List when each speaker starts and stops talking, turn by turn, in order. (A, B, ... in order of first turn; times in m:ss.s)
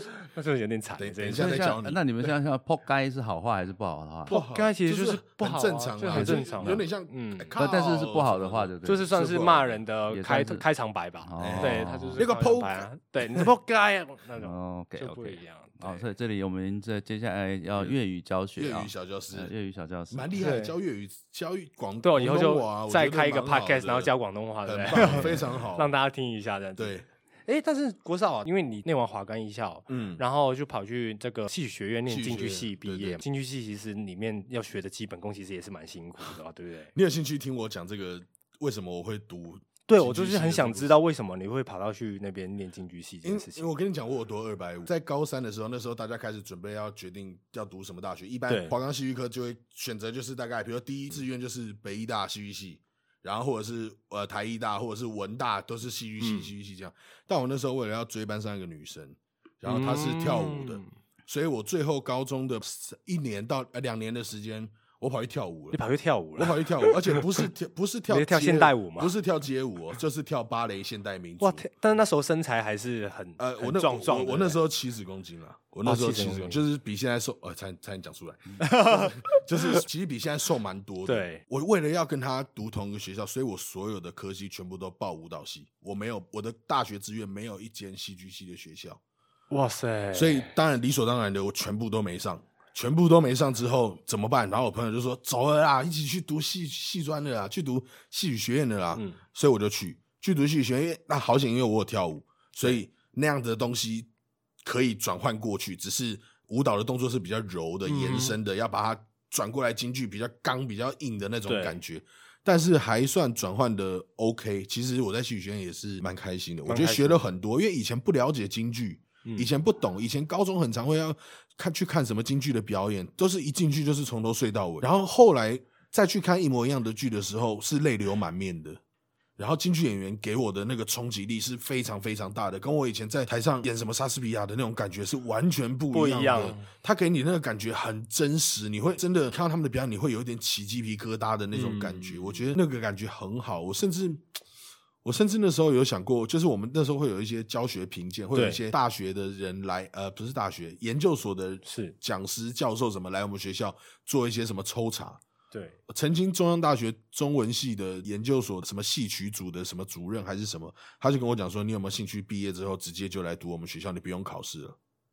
0:00.2-0:01.7 A
0:01.0-0:02.3 B
0:01.3-0:04.4 C
0:04.3-0:07.6 A
0:04.3-0:09.8 B
0:06.1-0:06.8 C
0:07.6-0:09.1 C
0:08.8-0:16.0 A
0:10.1-0:10.6 C
0:11.2-0:12.2 C
0:11.4-0:13.5 B
0:14.4-0:20.3 C
0:18.6-0:19.5 B
0:20.1-0:24.1 B
0:20.4-0:20.8 A
0:22.0-0:36.9 A
0:24.6-0:25.9 B
0:26.8-0:27.0 B
0:29.9-0:30.2 B
0:32.1-0:33.2 B
0:37.0-0:41.0 B
0:39.9-0:43.7 A
0:43.2-1:05.8 B
0:48.5-0:48.7 A
0:56.2-0:56.5 A
0:59.6-1:00.9 A
1:05.7-1:07.5 A
1:06.4-1:11.6 B
1:08.1-1:09.2 A
1:11.4-1:14.6 A
1:13.4-1:29.0 B
1:15.8-1:16.6 A
1:18.6-1:19.8 A
1:21.1-1:21.4 A
1:29.5-1:30.5 A
1:30.1-1:44.1 B
1:44.6-2:08.8 B
1:47.9-1:48.4 A
1:51.5-1:51.8 A
1:56.7-1:57.2 A
2:09.4-2:24.2 B
2:15.9-2:16.7 A
2:21.5-2:22.4 A
2:25.0-2:35.2 B
2:28.4-2:28.6 A
2:31.7-2:31.9 A
2:35.5-2:35.8 A
2:35.9-2:44.8 B